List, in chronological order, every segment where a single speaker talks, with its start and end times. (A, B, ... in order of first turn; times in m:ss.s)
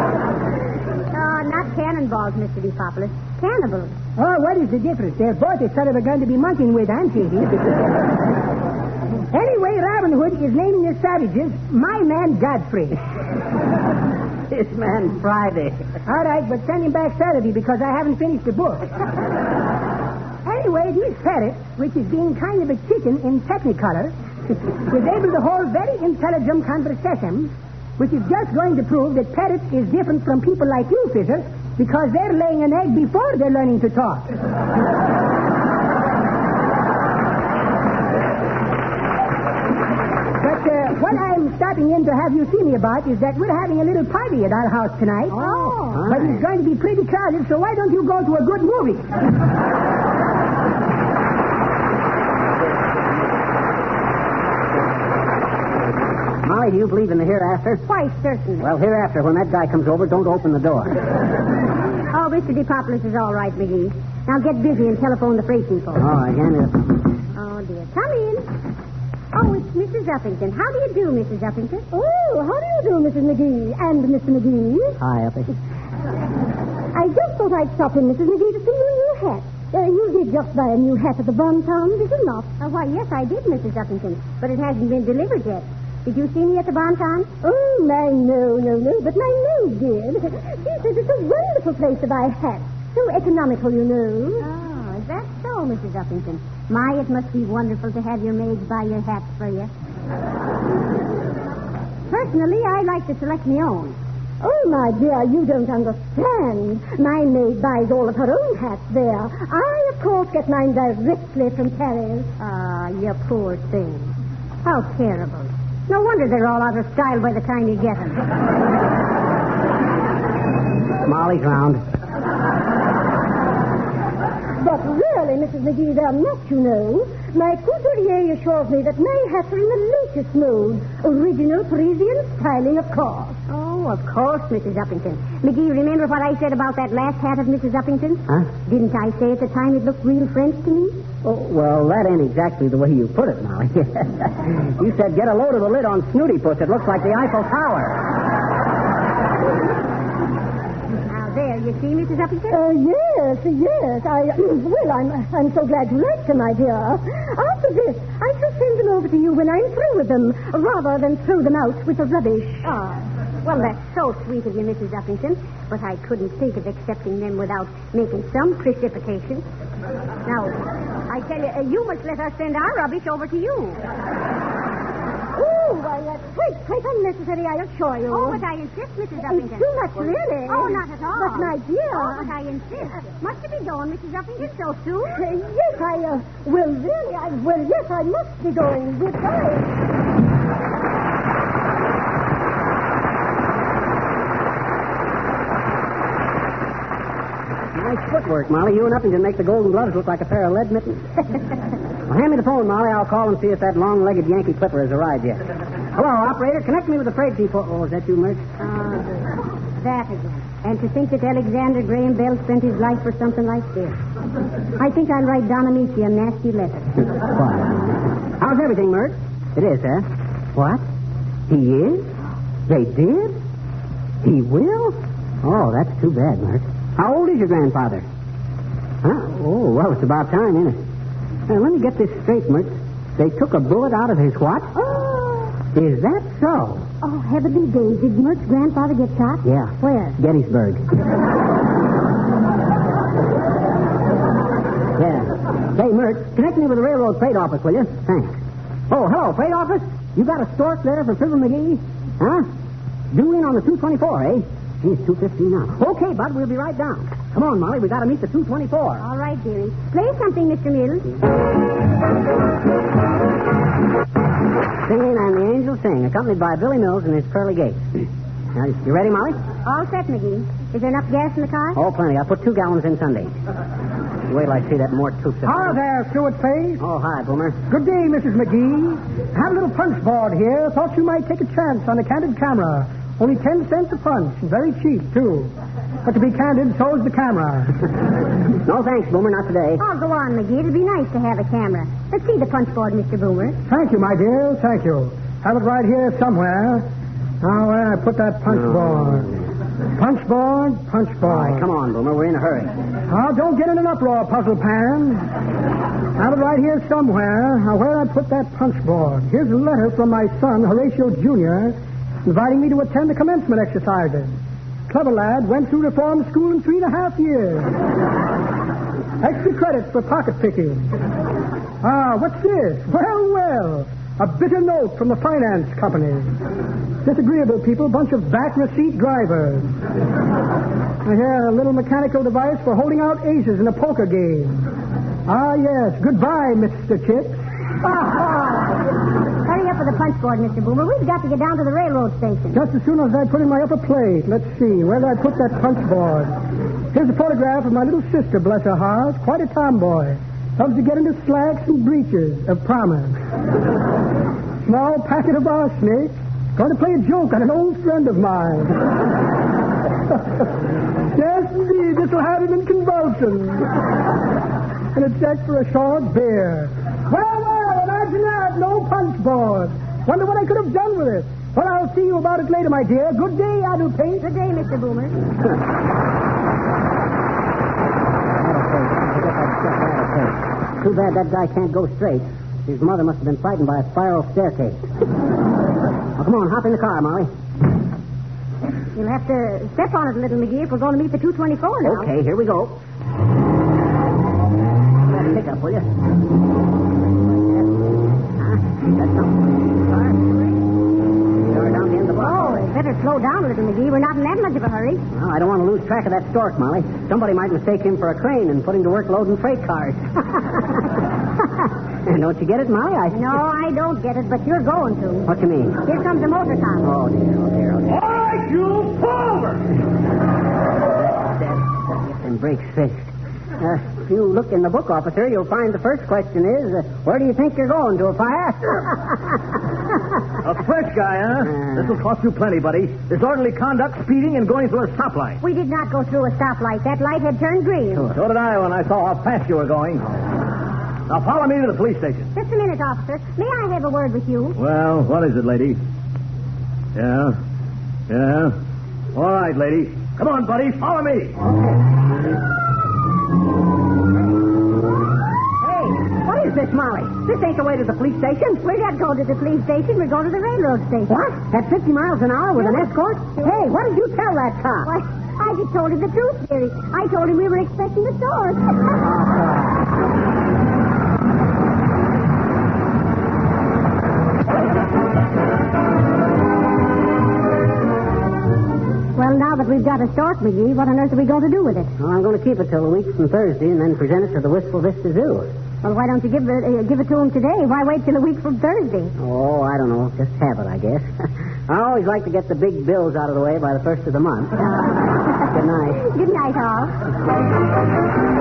0:01.1-0:03.9 A
0:04.2-0:07.7 B
0:09.3-0:13.0 B
0:14.5-0:15.9 C
0:16.1-0:18.9 B
0:20.4-0:24.2 B
0:24.9-0:34.3 B
0:40.4-0:49.0 B
0:45.3-0:46.0 A
0:45.9-0:46.4 C
0:56.4-0:57.8 C
0:57.8-0:58.7 A
0:58.6-1:01.0 C
1:02.1-1:06.1 A
1:06.0-1:07.0 C
1:07.3-1:08.5 A
1:09.3-1:11.8 A
1:11.9-1:15.0 D
1:15.0-1:15.6 C
1:16.9-1:22.5 D
1:22.6-1:27.3 A
1:27.4-1:34.4 D
1:34.4-1:39.7 A
1:42.1-1:44.0 A
1:44.4-1:52.3 D
1:52.4-1:54.1 A
1:54.6-1:58.2 A
2:01.0-2:01.8 C
2:04.6-2:13.3 D
2:07.8-2:08.3 E
2:09.0-2:10.0 E
2:10.8-2:13.2 E
2:13.5-2:21.0 A
2:21.2-2:28.0 C
2:31.1-2:32.6 A
2:32.5-2:42.6 D
2:32.8-2:34.2 E
2:37.7-2:39.0 E
2:39.6-2:40.2 E
2:41.3-2:41.7 E
2:42.6-2:49.4 A
2:50.2-2:53.8 A
2:55.4-2:58.2 D
2:56.4-2:57.1 E
2:58.1-2:59.7 A
2:58.1-2:58.4 E
2:59.5-3:00.8 E
2:59.6-3:00.5 D
3:00.5-3:05.2 A
3:01.2-3:02.0 D
3:01.4-3:02.1 E
3:05.1-3:06.4 E
3:05.2-3:09.6 D
3:07.8-3:08.3 E
3:09.0-3:09.5 E
3:17.7-3:21.2 C
3:22.1-3:28.4 C
3:28.6-3:34.0 A
3:34.8-3:37.0 A
3:37.2-3:40.8 C
3:41.5-3:42.1 C
3:42.7-3:43.4 C
3:44.2-3:48.0 C
3:49.0-3:50.8 C
3:51.5-3:54.7 C
3:54.8-3:55.5 A
3:55.7-3:56.8 C
3:57.0-4:00.2 A
3:59.4-4:00.8 C
4:05.0-4:12.4 C
4:13.1-4:19.0 C
4:19.0-4:21.1 A
4:24.8-4:29.4 C
4:29.6-4:31.8 A
4:31.8-4:33.3 C
4:34.3-4:35.8 C
4:35.4-4:36.8 E
4:36.8-4:37.6 C
4:37.7-4:45.5 E
4:46.0-4:47.7 E
4:48.6-4:49.8 C
4:49.8-4:53.6 A
4:53.6-4:56.8 E
4:57.4-4:59.3 E
4:58.5-4:59.3 C
5:00.0-5:01.6 E
5:01.2-5:02.7 C
5:03.1-5:05.3 E
5:06.2-5:14.3 E
5:14.9-5:17.7 E
5:19.2-5:20.9 E
5:21.8-5:26.3 E
5:27.0-5:29.7 E
5:31.0-5:34.6 E
5:35.3-5:37.4 E
5:37.8-5:38.7 A
5:39.4-5:42.6 A
5:42.5-5:46.3 E
5:46.9-5:53.2 E
5:54.6-5:58.7 E
6:01.1-6:03.7 E
6:04.9-6:14.2 E
6:14.2-6:15.2 A
6:18.4-6:24.8 C
6:26.2-6:27.3 C
6:28.9-6:32.1 A
6:31.8-6:32.8 C
6:35.1-6:35.9 C
6:38.4-6:40.4 C
6:41.4-6:42.7 C
6:42.2-6:45.0 A
6:45.1-6:50.8 C
6:52.0-6:53.4 C
6:53.1-6:55.3 A
6:55.2-6:55.8 C
6:55.8-6:56.9 A
6:56.8-6:58.1 C
6:58.0-6:59.6 F
7:01.2-7:09.3 C
7:10.4-7:15.4 F
7:15.4-7:18.1 A
7:18.1-7:20.2 F
7:21.1-7:22.3 F
7:22.3-7:24.6 A
7:24.6-7:25.8 F
7:27.0-7:27.3 F
7:28.1-7:28.5 F
7:29.1-7:31.4 F
7:35.6-7:38.5 C
7:38.5-7:41.2 A
7:41.1-7:44.9 C
7:42.6-7:43.7 A
7:44.8-7:49.0 A
7:49.1-7:49.7 C
7:59.2-8:01.9 A
8:02.0-8:05.5 C
8:05.8-8:09.1 A
8:09.2-8:14.6 C
8:14.6-8:15.3 A
8:15.5-8:16.0 C
8:16.0-8:16.9 A